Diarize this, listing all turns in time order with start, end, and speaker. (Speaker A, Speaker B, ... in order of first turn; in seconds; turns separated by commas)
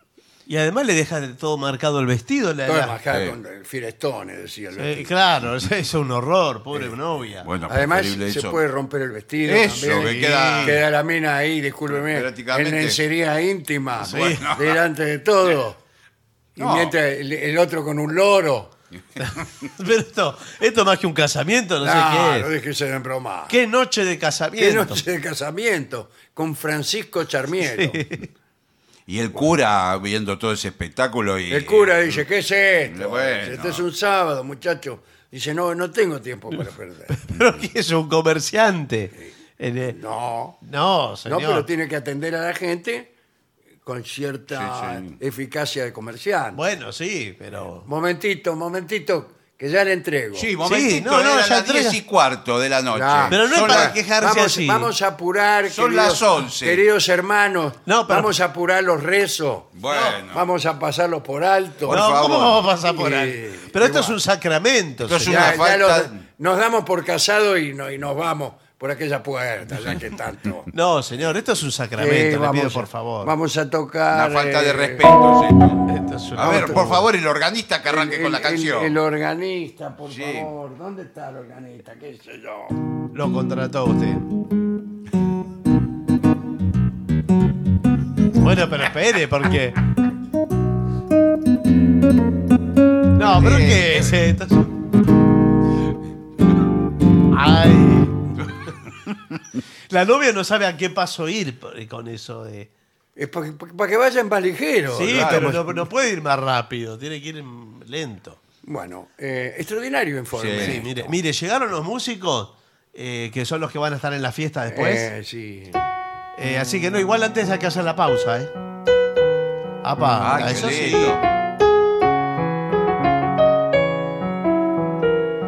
Speaker A: 0.5-3.0, Speaker B: 2.6-5.1, Speaker C: 3.1-3.4, Speaker A: 4.8-7.5, Speaker C: 7.4-8.6, Speaker B: 7.7-15.8, Speaker C: 9.4-10.8, Speaker A: 9.9-10.8, Speaker C: 11.9-13.0, Speaker A: 14.0-14.5, Speaker C: 14.0-14.8, Speaker B: 16.6-18.7, Speaker C: 16.6-16.9, Speaker A: 19.2-22.5, Speaker B: 21.8-23.5, Speaker A: 23.5-25.0, Speaker B: 24.6-28.0, Speaker A: 27.6-28.3, Speaker C: 29.1-32.2, Speaker B: 31.5-37.1, Speaker C: 32.9-33.8, Speaker A: 37.1-40.0, Speaker B: 39.9-40.6, Speaker A: 40.6-41.6, Speaker B: 41.2-43.1, Speaker B: 43.8-46.6, Speaker C: 44.5-45.1, Speaker A: 46.5-47.9, Speaker B: 47.9-50.5, Speaker C: 50.3-53.9, Speaker A: 50.6-52.0, Speaker B: 52.9-62.2, Speaker A: 53.3-54.9, Speaker C: 55.7-56.8, Speaker A: 57.9-58.3, Speaker C: 59.7-60.5, Speaker C: 61.8-62.6, Speaker A: 61.9-65.5, Speaker B: 62.8-64.2, Speaker C: 65.0-66.2, Speaker B: 65.2-70.7, Speaker A: 70.7-73.3, Speaker B: 72.0-75.1, Speaker C: 74.1-75.8, Speaker A: 75.9-77.0, Speaker C: 76.3-78.9, Speaker B: 77.8-82.8, Speaker C: 80.1-80.5, Speaker A: 83.1-84.3, Speaker A: 88.4-89.8, Speaker A: 93.1-94.7, Speaker C: 93.3-94.1, Speaker A: 97.3-98.2, Speaker A: 99.9-102.7, Speaker B: 103.2-105.8, Speaker A: 104.9-108.4, Speaker C: 105.1-105.5, Speaker B: 108.6-111.2, Speaker C: 110.3-110.8, Speaker A: 110.6-115.1, Speaker B: 114.7-115.8, Speaker A: 116.3-118.5, Speaker A: 119.8-121.2, Speaker C: 120.2-121.2